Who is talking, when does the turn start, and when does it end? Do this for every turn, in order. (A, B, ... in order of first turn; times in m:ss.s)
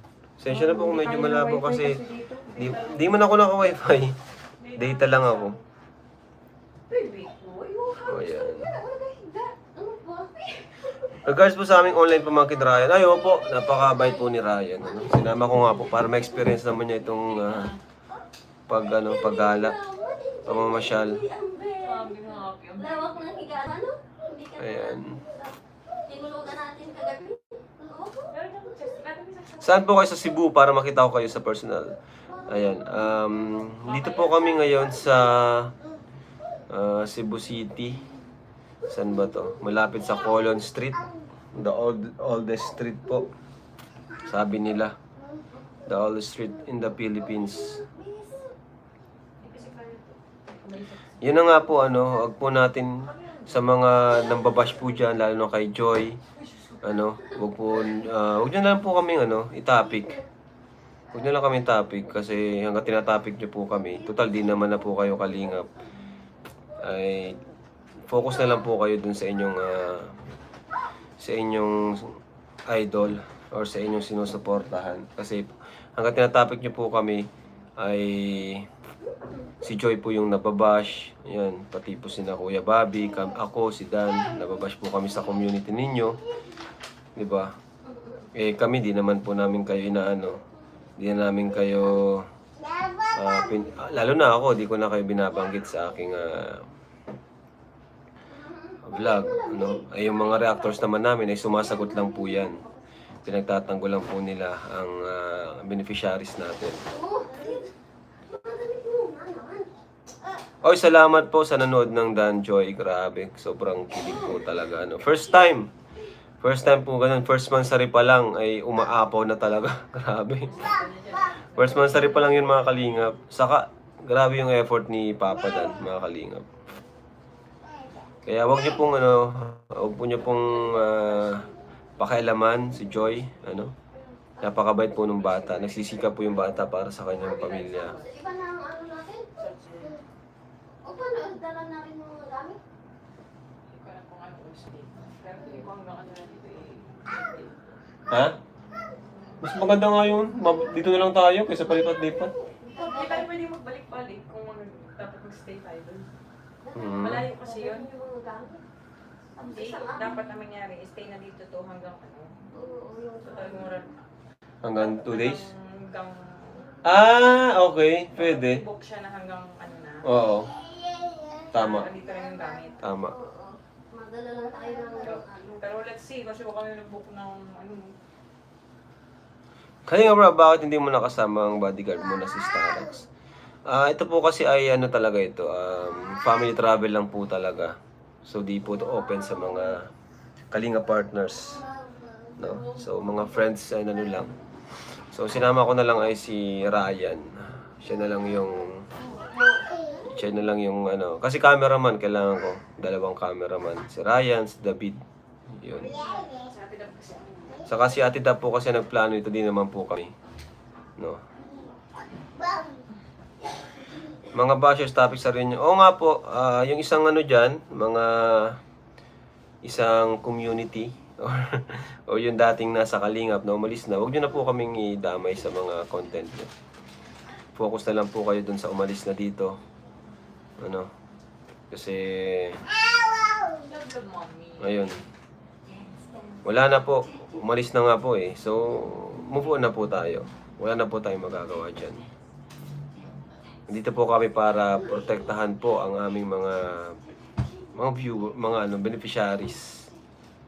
0:00.4-0:02.0 A
0:00.5-0:03.1 B
0:02.5-0:04.1 A
0:04.6-0:05.6 B
0:04.7-0:05.6 A
0:06.9-0:09.6 B
0:08.0-0:08.7 A
0:09.7-0:10.8 C
0:11.2-0:17.7 A
0:13.6-0:14.3 C
0:14.8-0:16.3 C
0:17.2-0:17.8 B
0:18.7-0:19.8 A
0:19.0-0:22.2 C
0:20.4-0:21.2 A
0:21.8-0:23.4 B
0:22.8-0:25.5 C
0:24.6-0:25.2 A
0:26.0-0:28.3 C
0:28.3-0:29.9 B
0:29.6-0:35.7 A
0:32.3-0:32.8 C
0:33.8-0:34.8 B
0:36.7-0:38.0 A
0:38.9-0:43.3 A
0:44.2-0:44.9 A
0:45.8-0:47.8 A
0:47.6-0:48.5 C
0:49.4-0:51.2 B
0:51.2-0:56.2 A
0:53.0-0:53.7 B
0:56.3-0:57.1 B
0:56.8-1:00.2 A
1:01.1-1:05.7 A
1:06.8-1:07.4 A
1:08.1-1:10.1 A
1:11.2-1:17.2 A
1:17.8-1:18.7 A
1:19.6-1:26.2 A
1:27.1-1:27.5 A
1:28.3-1:30.4 A
1:31.0-1:32.2 A
1:33.1-1:36.6 A
1:38.3-1:39.8 C
1:38.8-1:42.6 A
1:40.0-1:41.8 B
1:42.0-1:42.4 C
1:43.2-1:46.8 A
1:46.9-1:47.6 C
1:47.3-1:47.7 B
1:48.3-1:49.7 C
1:50.6-1:55.7 A
1:56.4-2:00.7 A
2:00.4-2:02.7 B
2:01.5-2:06.5 A
2:08.2-2:11.4 A
2:10.3-2:11.5 B
2:12.0-2:13.7 A
2:14.4-2:17.9 A
2:15.0-2:18.2 B
2:17.9-2:19.3 C
2:19.4-2:20.0 B
2:20.8-2:22.6 C
2:23.7-2:27.8 B
2:28.1-2:28.4 A
2:29.4-2:32.3 A
2:32.0-2:33.3 C
2:32.7-2:36.0 B
2:36.6-2:38.6 C
2:36.7-2:37.2 A
2:36.8-2:37.9 B
2:39.4-2:40.3 C
2:39.4-2:42.5 B
2:42.5-2:43.8 C
2:43.2-2:44.0 B
2:44.6-2:45.5 A
2:44.8-2:46.7 B
2:46.8-2:48.6 A
2:48.1-2:50.0 B
2:50.0-2:50.5 A
2:50.5-2:51.4 C
2:51.5-2:51.9 A
2:51.5-2:52.8 B
2:52.0-2:55.6 C
2:52.8-2:53.1 A
2:55.0-2:58.0 B
2:59.9-3:03.1 A
3:03.7-3:09.8 A
3:10.5-3:11.7 A
3:12.4-3:14.3 A
3:12.6-3:13.2 B
3:15.1-3:17.3 A
3:17.8-3:18.8 A
3:19.2-3:20.0 C
3:20.0-3:25.0 A
3:25.5-3:26.0 A
3:25.7-3:27.7 B
3:27.7-3:30.1 A
3:34.3-3:38.6 A
3:39.6-3:46.5 A
3:47.6-3:49.6 A
3:50.6-3:50.9 A
3:51.7-3:52.6 A
3:53.6-3:55.0 B
3:54.6-3:55.0 A
3:56.4-4:02.0 A
4:03.7-4:07.0 A
4:07.7-4:09.9 A